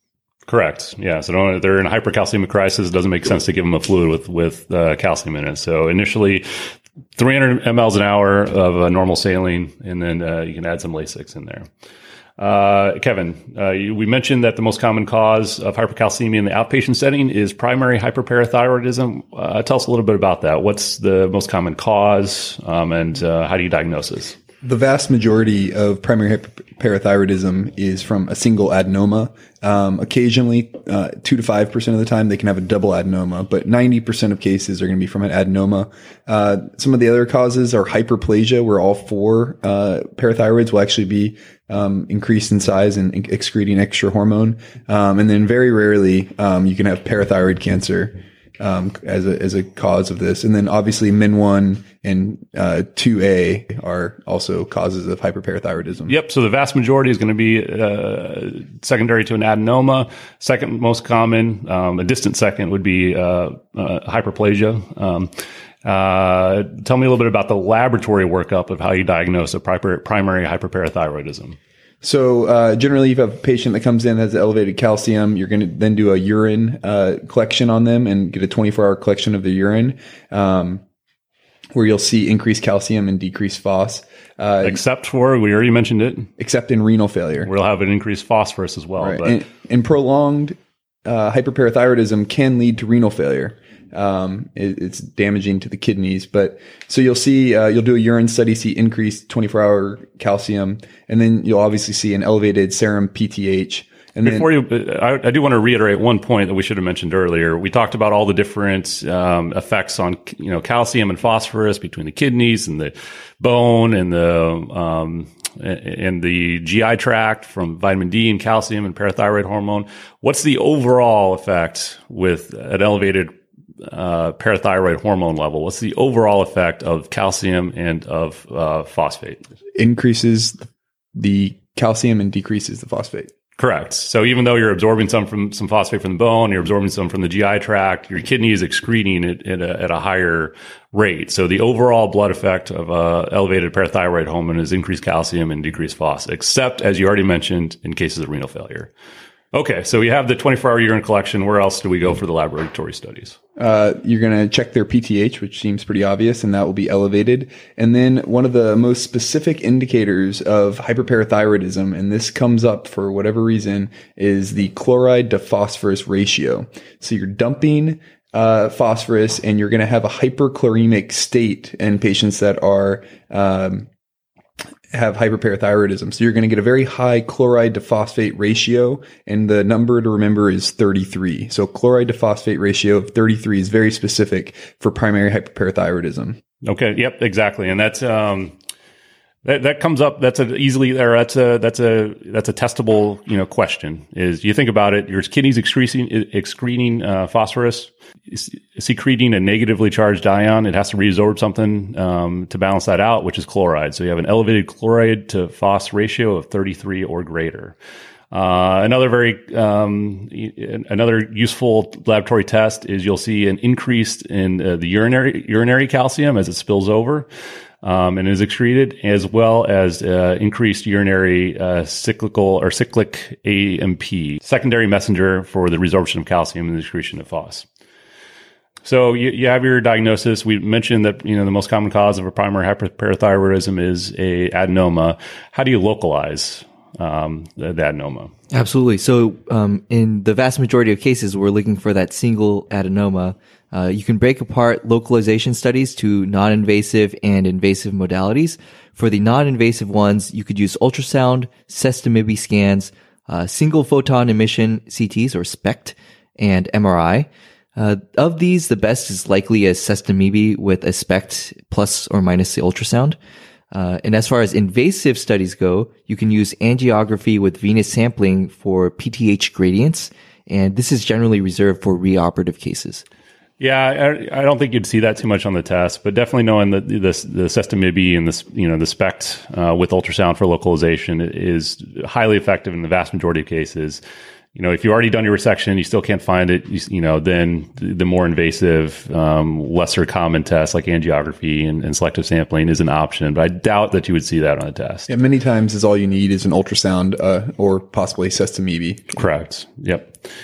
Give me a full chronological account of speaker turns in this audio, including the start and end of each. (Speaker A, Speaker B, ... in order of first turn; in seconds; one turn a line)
Speaker A: 0.5-6.5
Speaker A: 7.2-11.7
Speaker A: 12.4-24.4
Speaker B: 24.6-56.1
Speaker A: 56.1-65.3
Speaker A: 65.8-71.6
Speaker B: 72.0-80.8
Speaker B: 81.8-84.8
Speaker A: 84.6-86.3
Speaker B: 86.4-87.5
Speaker A: 87.5-89.4
Speaker B: 89.0-104.5
Speaker A: 104.2-129.4
Speaker B: 129.8-133.3
Speaker A: 133.6-148.9
Speaker A: 149.5-153.4
Speaker B: 153.6-173.9
Speaker B: 174.9-186.4
Speaker A: 186.6-188.5
Speaker A: 189.4-207.8
Speaker A: 208.3-217.3
Speaker A: 217.8-227.7
Speaker A: 228.8-238.3
Speaker C: 238.5-263.2
Speaker C: 263.7-273.0
Speaker A: 273.6-284.0
Speaker A: 284.6-295.1
Speaker B: 295.1-299.2
Speaker A: 299.1-300.1